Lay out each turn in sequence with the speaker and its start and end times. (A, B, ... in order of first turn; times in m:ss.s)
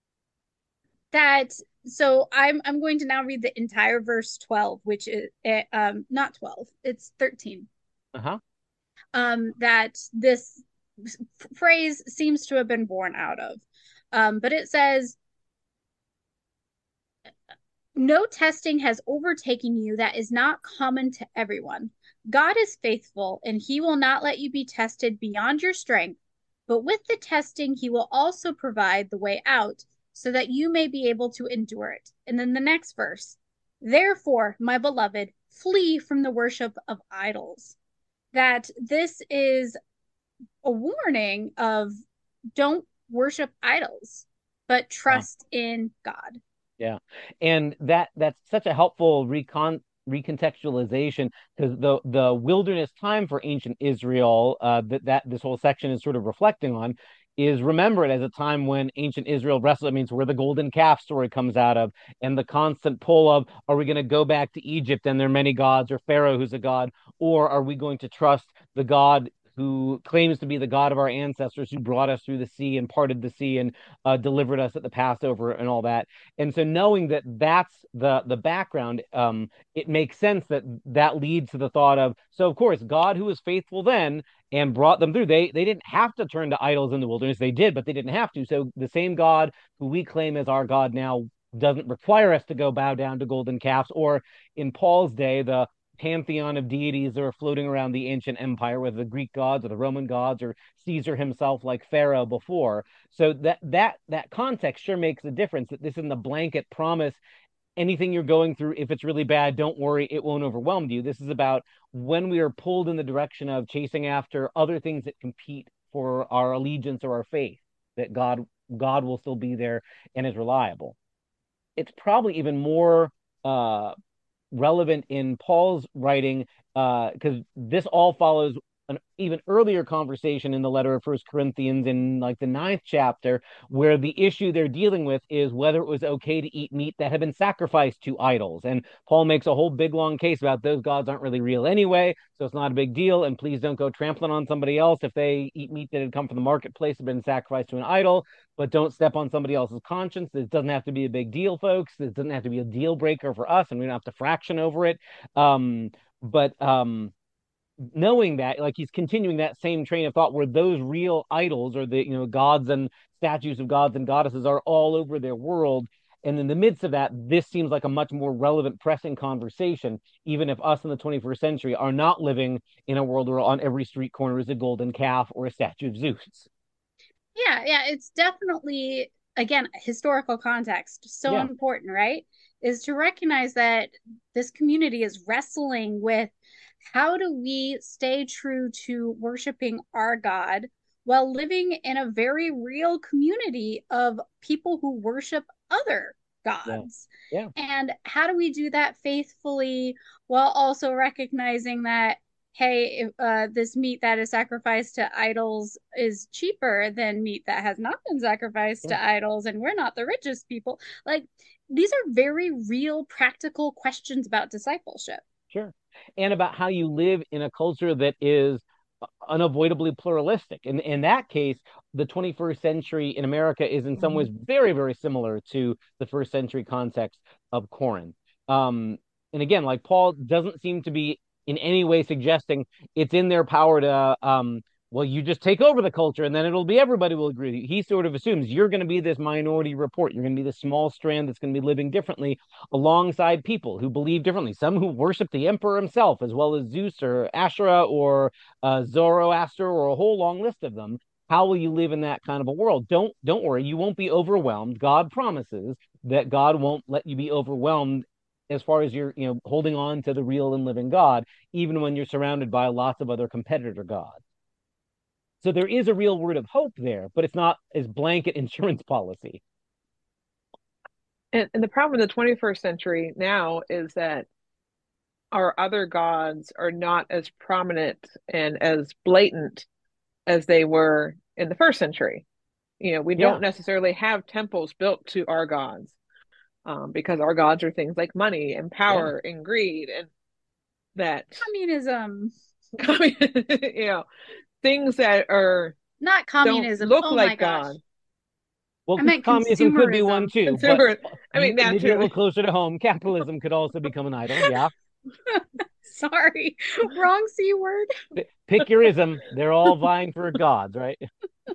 0:01.1-0:07.7 A
0:08.2-0:08.4 B
0:09.1-0:15.2 A
0:18.0-0:37.8 A
0:38.3-0:39.8 A
0:40.6-0:42.0 A
0:42.6-0:46.4 A
0:46.8-1:47.2 B
1:47.8-2:01.0 B
2:01.8-2:04.0 B
2:04.5-2:37.1 B
2:37.8-2:56.5 B
2:57.4-3:06.3 A
3:06.9-3:35.2 A
3:16.7-3:17.5 B
3:35.5-3:38.6 B
3:39.2-4:24.2 B
4:25.4-4:29.4 B
4:31.3-4:34.3 C
4:35.3-4:39.7 C
4:40.3-4:42.2 C
4:42.8-4:46.0 C
4:46.6-4:50.1 C
4:48.9-4:49.1 B
4:51.0-4:51.4 C
4:51.4-4:52.3 A
4:52.8-4:54.0 C
4:54.6-4:55.8 C
4:56.0-4:57.8 A
4:56.4-4:57.8 C
4:58.9-5:00.8 B
4:59.0-5:00.3 A
5:00.5-5:02.1 C
5:01.4-5:04.7 B
5:05.3-5:07.9 A
5:08.2-5:11.0 B